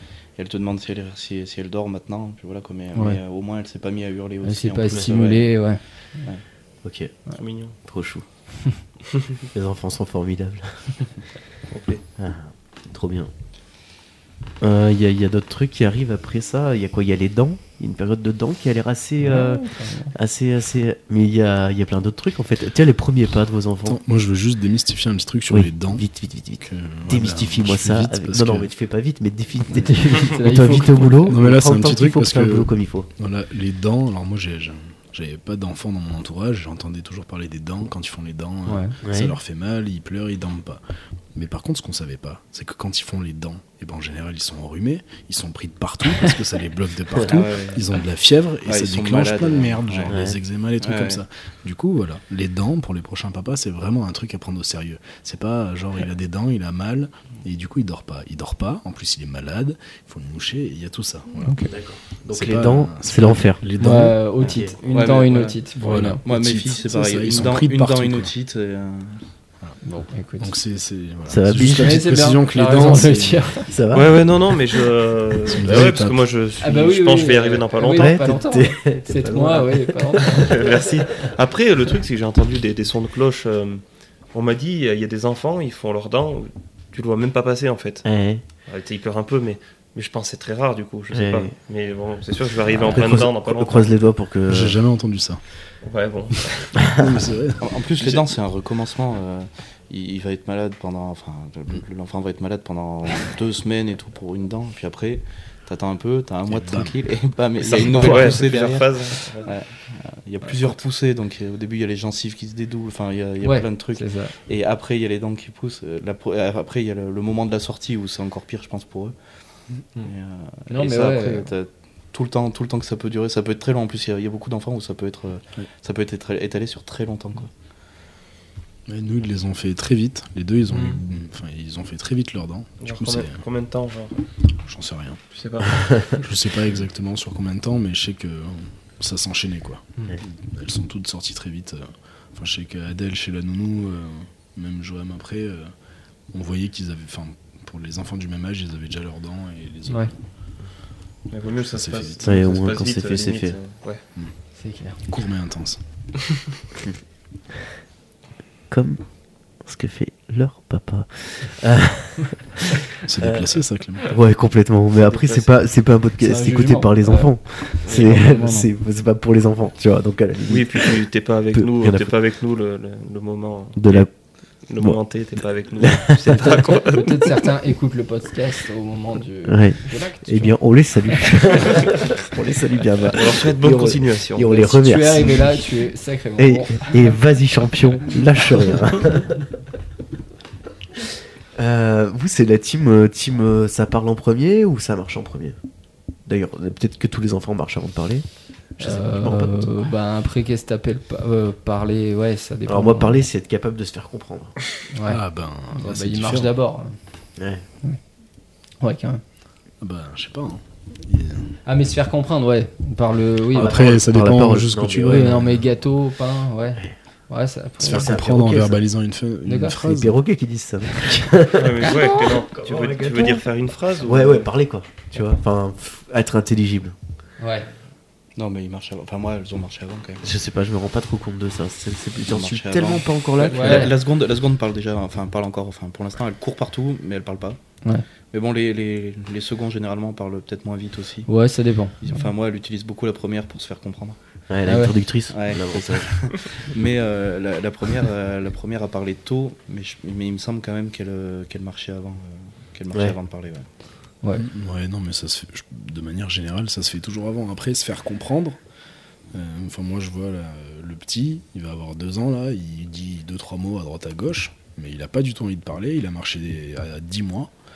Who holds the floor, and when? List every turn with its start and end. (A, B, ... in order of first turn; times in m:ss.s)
0:00.4-0:05.5 A
0:02.9-0:03.2 B
0:04.4-0:06.3 B
0:06.8-0:07.1 C
0:07.3-0:07.7 D
0:07.8-0:08.2 C
0:09.5-0:11.0 C
0:11.7-0:12.0 D
0:12.2-0:13.3 C
0:14.6-0:24.0 C
0:19.2-0:20.1 B
0:23.8-0:26.0 E
0:25.5-0:33.1 C
0:26.6-0:28.7 E
0:29.7-0:31.4 B
0:31.2-0:40.8 E
0:38.6-0:39.0 B
0:39.0-0:39.4 C
0:41.3-1:01.6 E
0:47.2-0:47.8 A
0:48.6-0:50.2 A
0:50.1-0:50.4 C
0:50.8-0:51.2 A
1:01.4-1:01.7 B
1:01.6-1:03.6 C
1:02.3-1:04.3 E
1:03.8-1:06.2 B
1:04.4-1:04.8 C
1:04.9-1:05.6 A
1:05.8-1:08.3 E
1:06.2-1:09.2 A
1:09.8-1:10.5 B
1:10.4-1:13.5 E
1:11.3-1:12.0 C
1:11.6-1:13.7 B
1:13.6-1:14.3 C
1:13.9-1:18.2 D
1:15.5-1:16.3 E
1:16.6-1:20.6 B
1:17.9-1:20.8 C
1:20.3-1:28.0 D
1:28.0-1:28.4 C
1:28.6-1:33.9 D
1:31.1-1:31.5 C
1:32.7-1:34.8 C
1:34.5-1:35.4 E
1:35.8-1:37.0 D
1:36.8-1:37.6 E
1:37.6-1:59.1 A
1:46.5-1:46.9 E
1:47.6-1:49.5 D
1:53.4-1:54.3 B
2:00.0-2:07.5 A
2:00.7-2:01.5 B
2:08.9-2:13.4 E
2:12.8-2:14.2 D
2:14.6-2:15.2 E
2:15.3-2:16.2 D
2:15.8-2:16.0 C
2:16.1-2:25.7 E
2:26.3-2:30.1 E
2:29.8-2:30.1 B
2:31.3-2:34.0 D
2:31.6-2:32.4 E
2:32.2-2:33.6 C
2:34.6-2:35.0 B
2:35.0-2:35.8 E
2:38.7-2:39.0 C
2:39.6-2:43.5 C
2:43.0-2:44.1 E
2:44.0-2:52.1 C
2:45.0-2:45.6 D
2:46.2-2:48.6 B
2:50.5-2:54.1 D
2:53.8-2:54.1 C
2:54.6-2:57.3 D
2:55.8-2:56.7 C
2:56.9-3:00.6 B
2:59.4-3:05.6 C
3:01.2-3:01.7 B
3:03.1-3:04.6 D
3:04.5-3:07.1 B
3:06.4-3:09.4 C
3:11.5-3:15.6 C
3:16.2-3:18.2 C
3:18.8-3:19.9 C
3:18.8-3:23.2 B
3:22.6-3:24.6 C
3:24.9-3:25.2 B
3:25.0-3:26.6 E
3:25.7-3:26.9 B
3:27.4-3:27.6 C
3:28.8-3:29.2 B
3:29.8-3:31.6 E
3:31.6-3:33.9 B
3:33.5-3:35.6 E
3:33.5-3:35.5 C
3:35.0-3:38.1 B
3:37.8-3:40.2 E
3:37.8-3:38.8 C
3:39.4-3:39.8 B
3:39.8-3:43.4 C
3:41.5-3:44.5 D
3:44.0-3:46.9 C
3:47.4-3:47.7 B
3:48.4-3:50.3 A
3:50.2-3:53.9 C
3:52.2-3:57.6 A
3:53.5-3:53.9 B
3:58.3-4:01.3 A
4:01.3-4:02.3 B
4:02.0-4:04.2 A
4:04.5-4:06.2 C
4:04.6-4:04.9 B
4:05.3-4:13.7 A
4:12.9-4:13.2 C
4:14.2-4:14.5 B
4:14.4-4:18.6 E
4:19.3-4:27.5 E